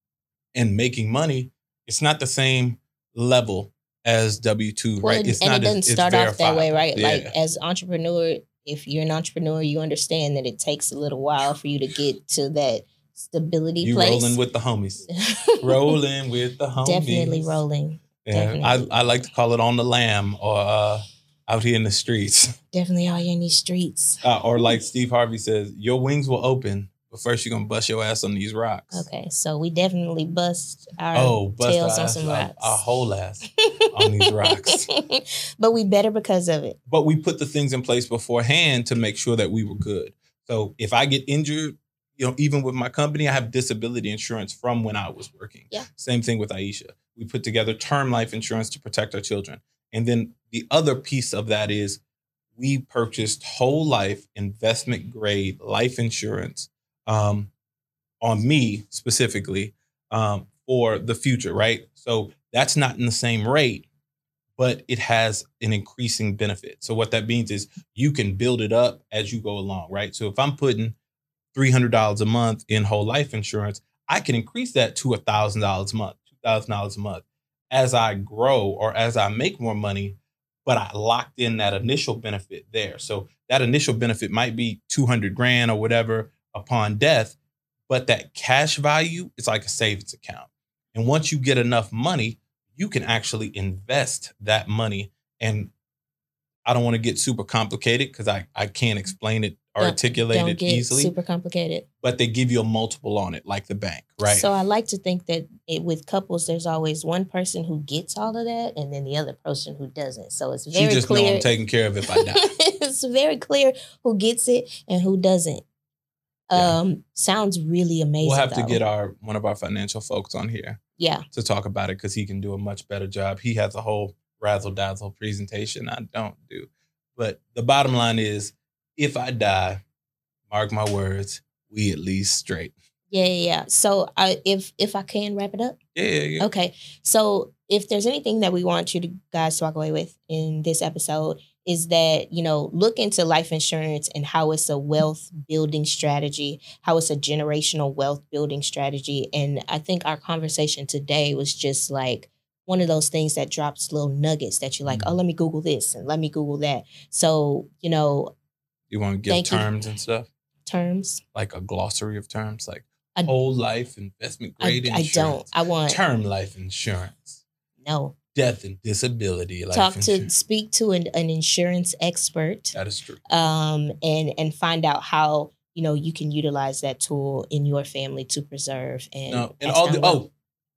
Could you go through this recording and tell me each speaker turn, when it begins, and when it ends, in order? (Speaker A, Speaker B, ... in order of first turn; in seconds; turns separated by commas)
Speaker A: 0.5-7.3, Speaker B: 5.0-14.4, Speaker A: 13.8-17.6, Speaker B: 15.2-16.0, Speaker B: 16.8-19.1, Speaker A: 18.2-22.6, Speaker B: 22.7-24.8, Speaker A: 24.2-29.1, Speaker B: 28.9-32.8, Speaker A: 31.1-34.9, Speaker B: 34.1-36.8, Speaker A: 36.9-52.0, Speaker A: 52.6-57.5, Speaker A: 58.2-63.9, Speaker A: 64.6-71.0, Speaker A: 71.5-87.4, Speaker A: 87.9-95.7, Speaker A: 96.7-101.2, Speaker B: 99.8-101.9, Speaker A: 102.0-104.5, Speaker B: 104.2-111.5, Speaker A: 110.7-112.5, Speaker B: 112.1-115.6, Speaker B: 116.5-118.8, Speaker A: 118.2-120.8, Speaker B: 121.0-121.3, Speaker A: 121.3-129.8, Speaker A: 130.5-132.8, Speaker B: 133.1-135.8, Speaker A: 135.9-136.5, Speaker B: 136.4-158.3, Speaker A: 154.9-155.2, Speaker A: 158.9-160.3, Speaker B: 159.3-159.7, Speaker B: 160.7-161.2, Speaker A: 161.3-167.4, Speaker B: 164.6-166.0, Speaker B: 167.8-168.2, Speaker A: 168.3-170.3, Speaker B: 169.7-172.8, Speaker A: 172.7-173.2, Speaker B: 173.3-180.2, Speaker A: 179.3-180.3